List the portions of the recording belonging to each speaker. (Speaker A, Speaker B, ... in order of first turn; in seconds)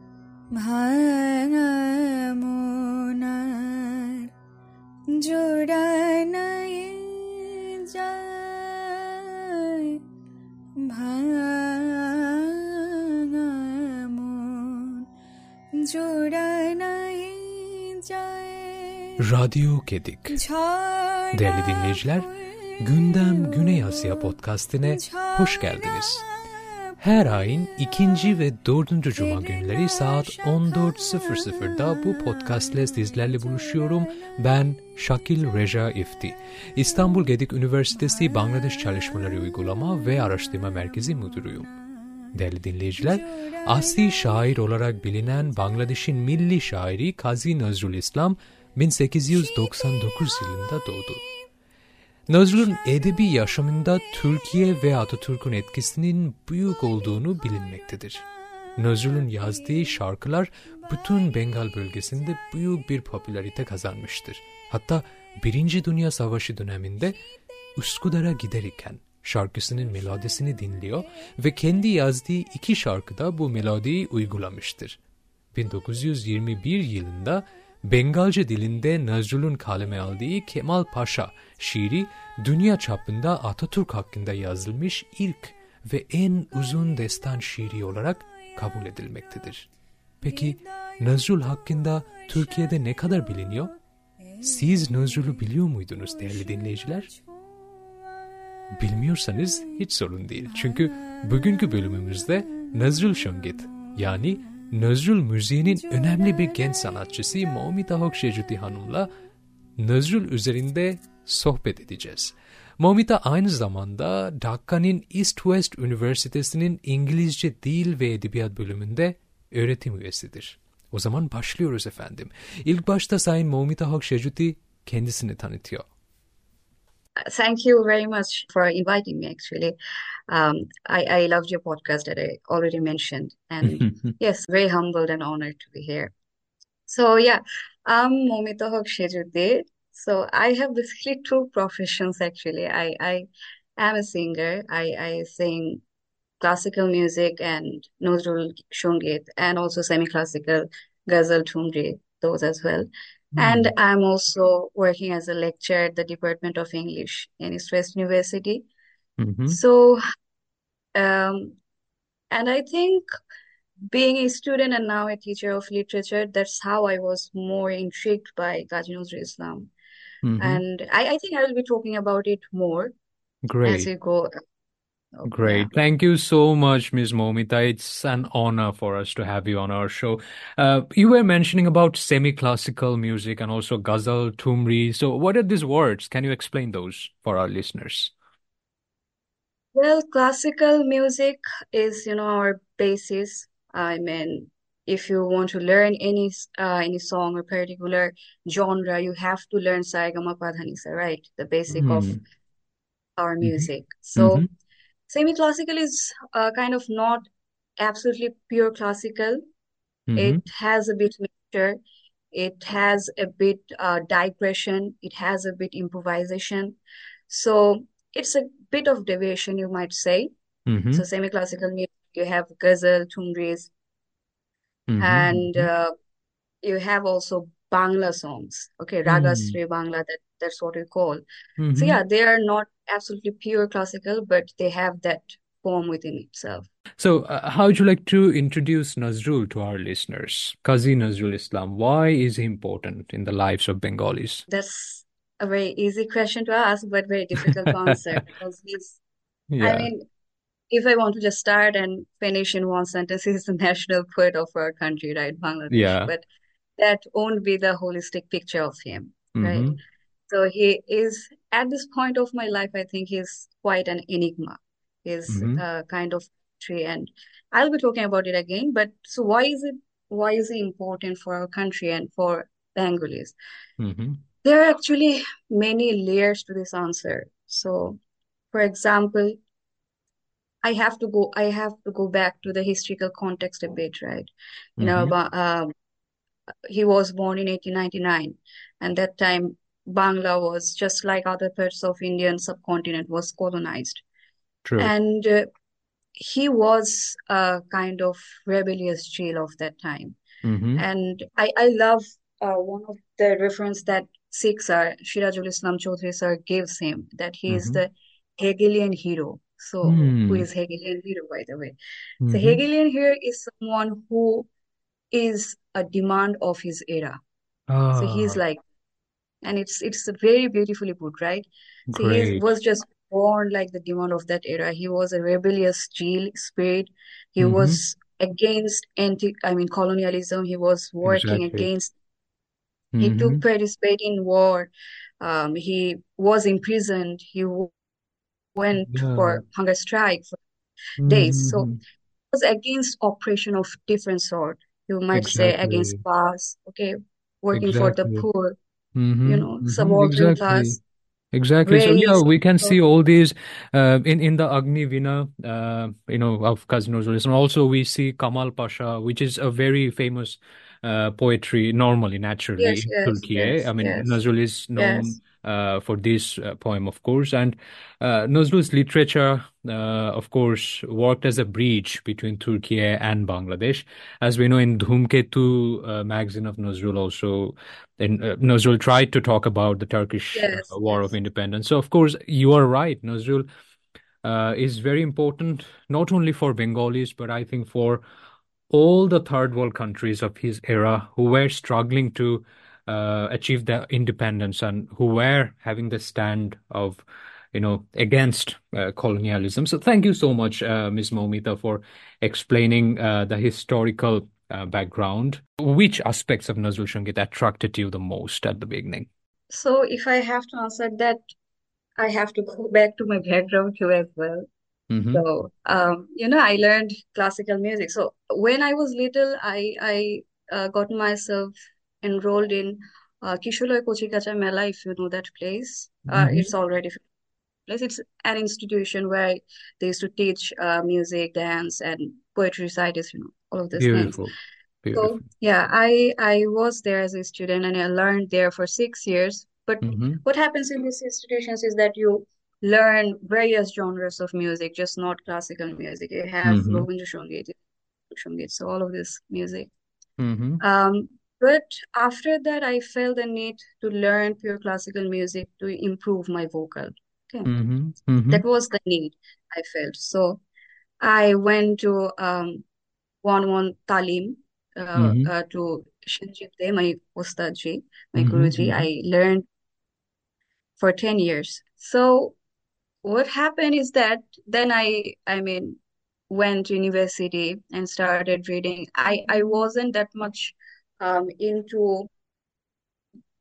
Speaker A: 0.5-4.3, 5.1-10.0, 10.8-15.1, 15.7-19.2, 20.3-28.4, 29.1-34.4, 38.0-39.5, 43.0-44.5, 49.5-51.0, 57.5-57.8, 59.5-59.7, 70.2-70.5, 88.2-89.0, 90.2-93.8, 94.3-98.7, 99.3-99.8, 100.4-104.2, 105.6-107.3
Speaker B: 19.2-20.4, 21.3-22.3, 22.8-26.2, 27.0-41.7, 42.3-51.2, 52.3-58.2, 58.8-67.2, 67.8-75.0, 75.5-89.7, 90.2-93.7, 94.4-97.1, 98.8-109.1, 109.8-125.9, 133.6-133.9, 153.3-153.7, 159.2-159.6, 170.2-170.6, 173.4-173.9, 175.2-188.1, 201.7-202.2, 203.4-204.5, 210.1-210.4, 220.7-221.0, 224.9-225.7, 229.1-229.6, 231.6-232.0, 237.0-244.4, 247.6-248.2, 249.5-249.9, 255.7-256.1, 259.4-259.8, 265.3-265.6, 273.8-274.2, 284.8-285.1, 294.6-294.9, 300.4-300.8, 307.5-307.8, 309.8-310.5, 312.2-312.6, 317.7-318.4, 321.9-322.4, 327.4-327.8, 331.0-331.7, 332.9-333.4, 338.9-339.4, 341.0-341.8, 345.1-346.0, 347.5-348.2, 348.9-350.8, 351.3-383.4, 384.2-388.0, 388.7-409.1, 414.9-415.2, 426.1-426.5, 433.8-435.2, 439.8-440.2, 446.4-446.9, 450.2-450.6, 457.4-458.4, 464.9-465.3, 468.2-468.9
Speaker C: 127.2-129.8, 130.3-136.1, 136.9-143.3, 143.8-145.8, 146.4-158.7, 159.5-160.0, 160.9-161.6, 162.3-163.1, 163.9-169.7, 170.4-172.9, 173.6-174.3, 175.1-175.7, 189.7-202.2, 203.2-204.5, 205.1-207.3, 207.8-209.4, 210.2-211.8, 212.3-216.8, 217.3-220.3, 220.9-223.7, 225.0-225.9, 226.6-231.2, 231.7-236.7, 244.5-249.0, 249.6-250.1, 250.7-256.2, 256.8-259.8, 260.3-273.4, 274.4-278.0, 278.5-279.4, 280.6-285.7, 286.7-294.0, 294.8-295.5, 296.2-300.2, 300.8-311.8, 312.3-314.5, 315.1-317.2, 317.9-318.6, 319.4-331.9, 333.0-337.7, 338.6-340.4, 341.1-341.7, 342.3-348.6, 349.2-350.8, 351.6-352.8, 362.6-364.2, 364.8-365.2, 380.3-381.1, 409.5-411.2, 412.0-414.5, 415.1-427.0, 427.7-434.2, 434.9-447.6, 448.1-449.7, 450.6-457.5, 458.3-460.4, 461.0-462.6, 463.2-469.4, 470.8-472.4, 473.0-475.8, 476.3-482.1